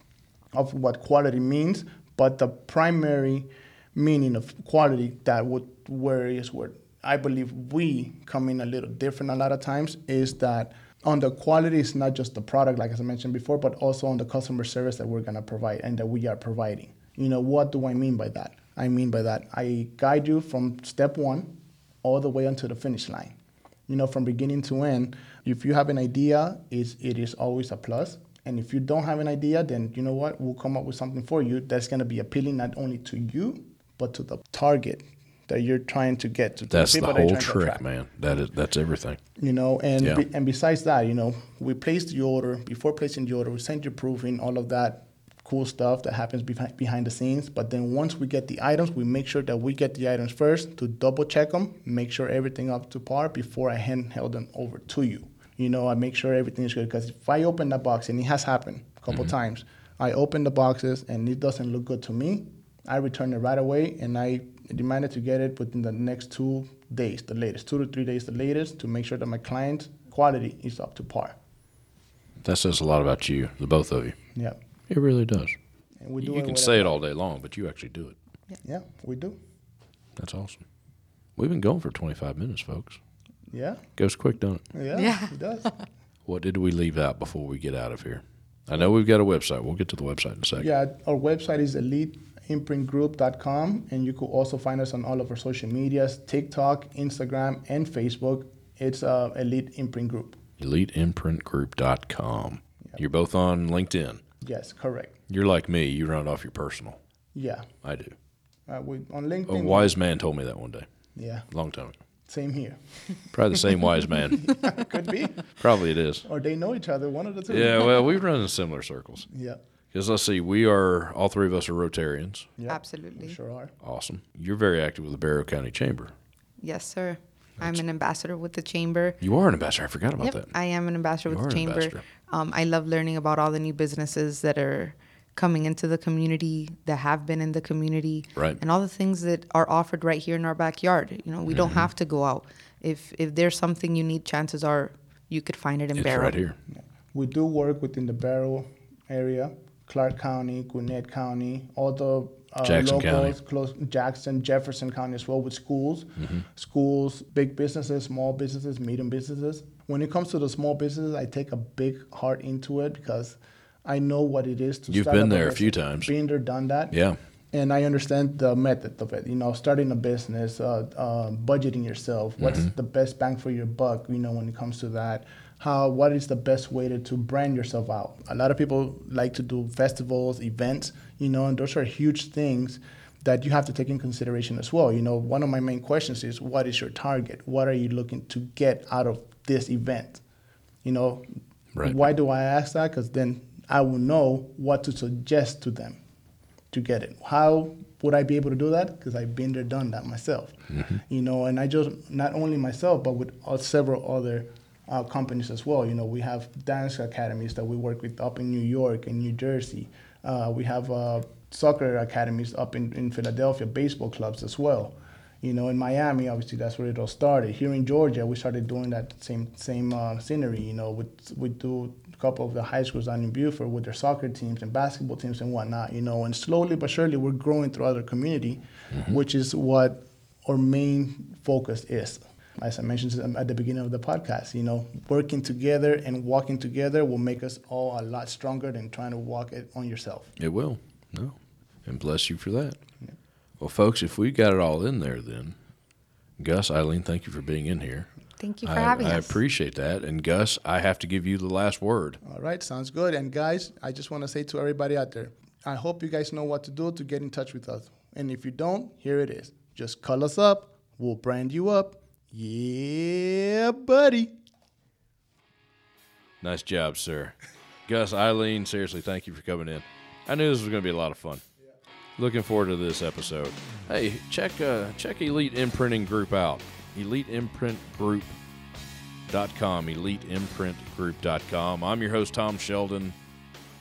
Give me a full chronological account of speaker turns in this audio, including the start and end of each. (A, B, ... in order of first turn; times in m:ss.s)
0:00.5-0:23.4 A
0:23.9-0:37.8 A
0:36.7-0:39.2 B
0:39.4-1:11.4 A
1:12.4-1:14.2 B
1:14.9-1:15.6 B
1:16.0-1:17.0 A
1:16.2-1:18.2 B
1:18.6-1:19.4 A
1:20.2-1:20.6 B
1:21.4-1:23.0 B
1:23.5-1:23.8 A
1:24.0-1:24.6 B
1:24.7-1:25.7 A
1:24.9-1:25.7 C
1:26.3-1:30.7 B
1:30.6-1:40.4 A
1:40.6-1:44.2 B
1:44.4-1:45.2 A
1:45.3-1:47.0 B
1:47.3-1:47.7 A
1:47.8-1:48.1 B
1:48.7-1:49.9 A
1:49.5-1:50.9 B
1:51.1-1:51.5 A
1:51.5-1:52.0 B
1:52.3-1:52.8 A
1:53.3-1:54.7 B
1:54.4-1:55.5 A
1:55.6-1:56.2 B
1:56.2-1:58.2 A
1:57.5-1:59.3 B
1:59.3-1:59.6 A
1:59.9-2:02.5 B
2:02.6-2:03.7 A
2:02.7-2:03.4 C
2:03.8-2:06.1 B
2:06.6-2:09.2 C
2:09.2-2:10.5 B
2:10.2-2:26.4 C
2:11.3-2:12.0 B
2:21.5-2:21.9 B
2:25.9-2:26.6 B
2:27.1-2:46.9 A
2:32.6-2:33.3 B
2:36.2-2:36.4 B
2:44.9-2:46.1 B
2:46.9-2:47.2 B
2:47.5-3:10.2 A
2:52.4-2:52.7 B
3:10.8-3:11.3 A
3:11.8-3:16.0 A
3:16.7-4:00.3 A
3:20.7-3:21.0 B
4:00.4-4:02.8 B
4:03.6-4:05.6 B
4:06.4-4:08.1 B
4:08.4-4:09.4 C
4:08.6-4:12.2 B
4:12.2-4:24.3 A
4:26.4-4:27.4 B
4:27.9-4:31.4 B
4:32.2-4:38.4 B
4:39.3-4:43.1 B